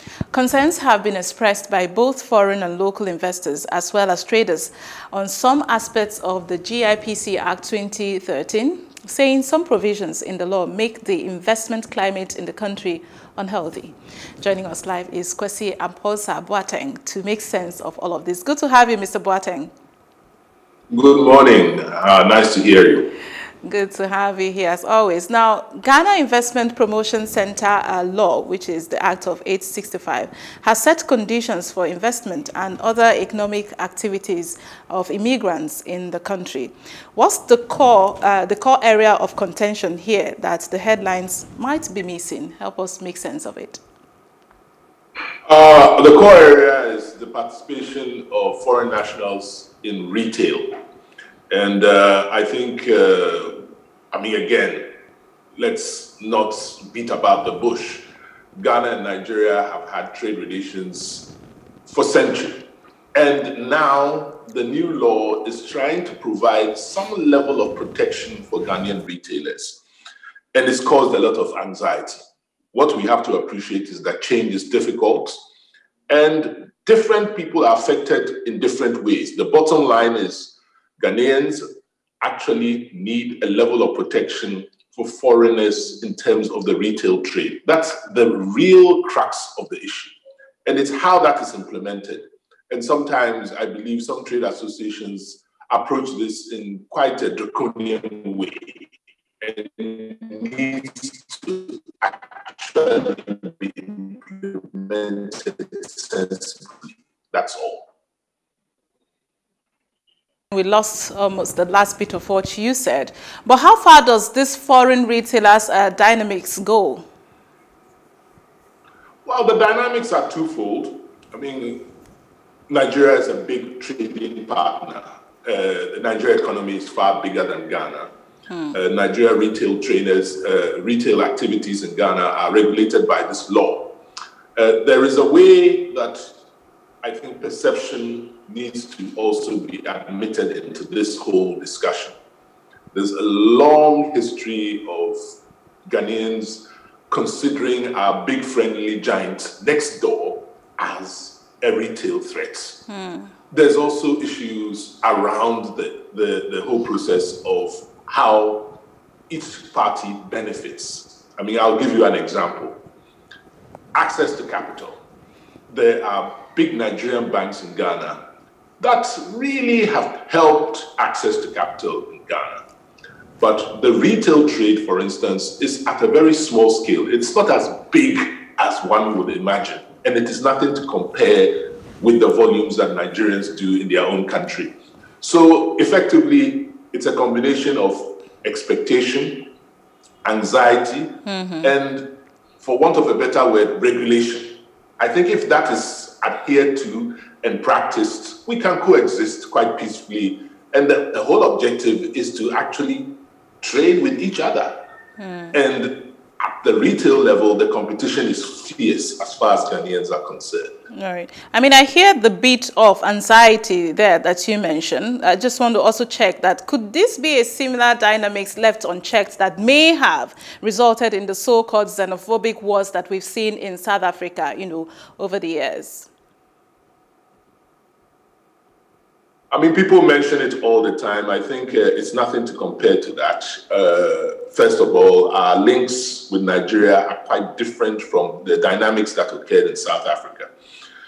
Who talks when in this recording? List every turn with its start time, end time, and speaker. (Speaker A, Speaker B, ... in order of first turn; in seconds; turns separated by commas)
Speaker A: 0.3-19.7, Speaker B: 20.9-23.1, Speaker A: 23.6-43.8, Speaker B: 45.5-50.7, Speaker B: 51.5-54.8, Speaker B: 55.6-61.3, Speaker B: 61.9-69.8, Speaker B: 70.5-72.2, Speaker B: 72.7-75.4, Speaker B: 76.1-81.6, Speaker B: 82.2-90.1, Speaker B: 90.7-98.9, Speaker B: 99.4-107.8, Speaker A: 110.5-117.0, Speaker B: 119.2-121.8, Speaker B: 122.7-128.1, Speaker A: 128.5-128.8, Speaker B: 128.7-133.9, Speaker B: 134.6-136.3, Speaker B: 137.0-142.2, Speaker B: 142.9-145.2, Speaker B: 145.9-152.8, Speaker A: 152.9-153.3, Speaker B: 153.5-158.8, Speaker B: 159.3-162.8, Speaker B: 163.9-165.0, Speaker B: 165.7-168.2, Speaker B: 168.8-172.6, Speaker B: 173.4-189.5, Speaker B: 190.2-203.1, Speaker A: 191.2-191.7, Speaker B: 203.6-204.8, Speaker A: 205.2-205.6, Speaker B: 205.5-210.7, Speaker A: 210.9-226.1, Speaker B: 229.5-240.5